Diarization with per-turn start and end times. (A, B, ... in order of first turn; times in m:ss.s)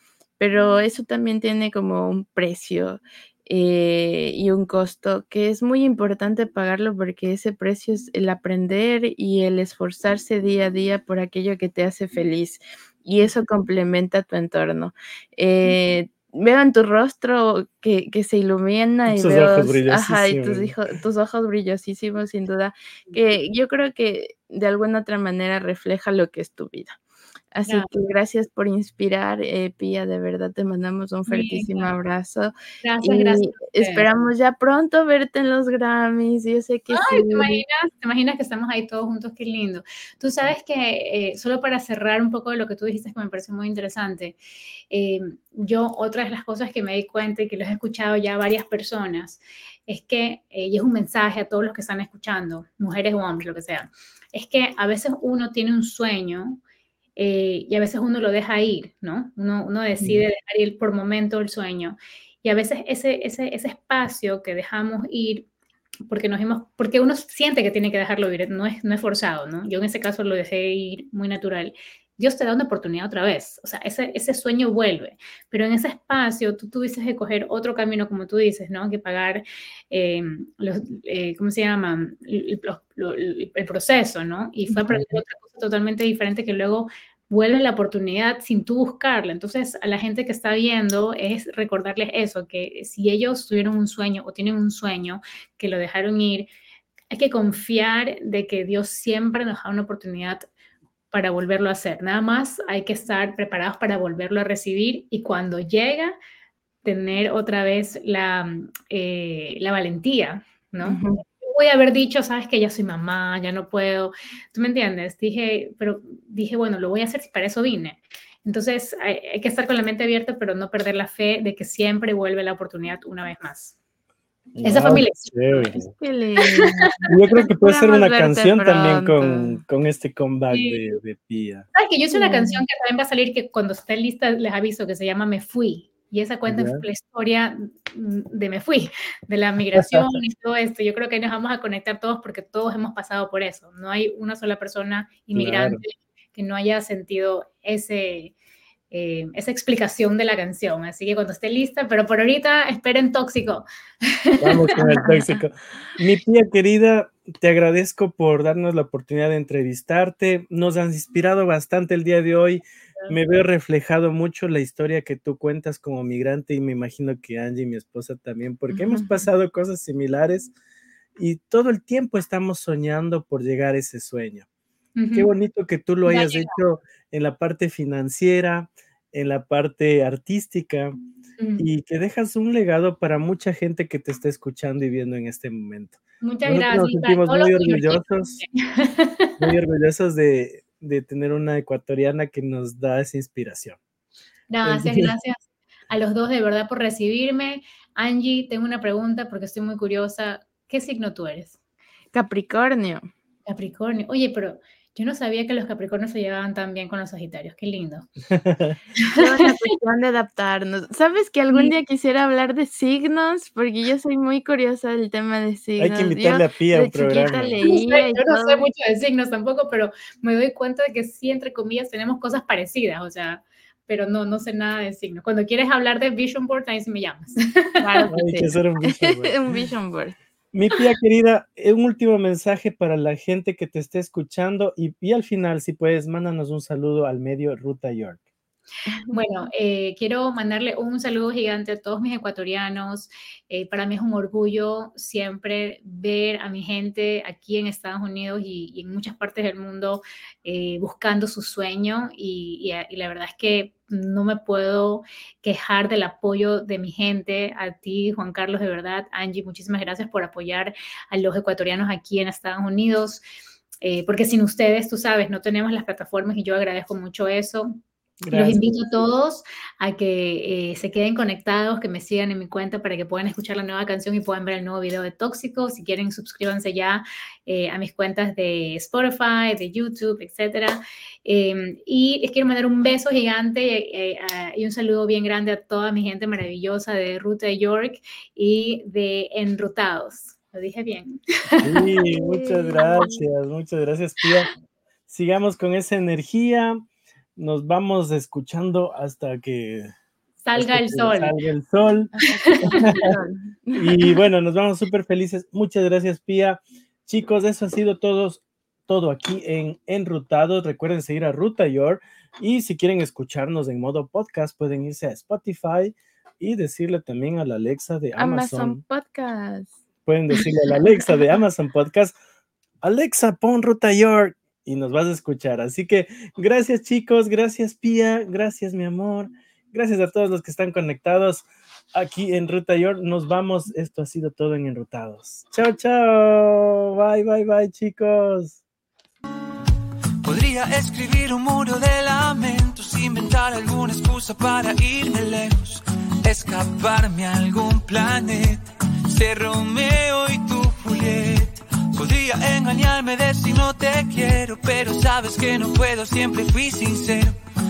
0:00.4-0:27.0 A
0:19.1-0:20.8 B
0:27.5-0:37.6 A
0:31.3-0:31.9 C
0:32.8-0:34.1 C
0:36.9-0:44.4 C
0:44.9-0:56.6 C
0:57.2-1:05.5 C
1:06.1-1:36.5 C
1:37.1-1:40.5 C
1:41.1-1:46.1 C
1:46.8-2:03.8 C
1:50.8-1:51.2 A
2:04.6-2:05.9 B
2:04.6-2:05.8 C
2:05.9-2:07.0 A
2:07.1-2:11.7 B
2:07.6-2:09.6 A
2:10.5-2:10.8 C
2:11.8-2:28.3 C
2:12.1-2:12.6 A
2:16.5-2:16.8 B
2:25.3-2:25.8 B
2:28.9-2:35.4 C
2:34.4-2:50.5 B
2:51.2-2:54.5 B
2:55.0-2:55.3 C
2:55.1-3:01.0 B
2:56.0-2:56.6 C
3:01.4-3:01.6 C
3:01.6-3:08.4 B
3:06.2-3:09.4 C
3:09.4-3:13.8 B
3:14.5-3:21.6 C
3:14.6-3:15.1 B
3:22.1-3:23.1 A
3:23.5-3:28.1 C
3:28.3-3:28.8 B
3:29.0-3:29.5 C
3:29.1-3:38.7 A
3:35.8-3:37.6 B
3:37.7-3:47.8 C
3:47.8-3:50.2 A
3:48.1-3:49.4 B
3:50.5-3:58.2 B
3:58.9-3:59.2 A
3:59.1-4:23.2 C
4:23.8-4:27.7 C
4:28.2-4:28.6 B
4:28.3-4:51.8 C
4:51.6-4:54.5 B
4:52.1-4:53.2 A
4:55.1-4:56.8 B
4:57.4-4:59.9 B
5:00.4-5:01.3 C
5:00.6-5:03.1 B
5:02.3-5:02.8 C
5:02.5-5:03.9 A
5:03.8-5:18.8 B
5:18.2-5:19.8 A
5:20.0-5:22.2 B
5:22.8-5:38.6 B
5:40.2-5:57.4 D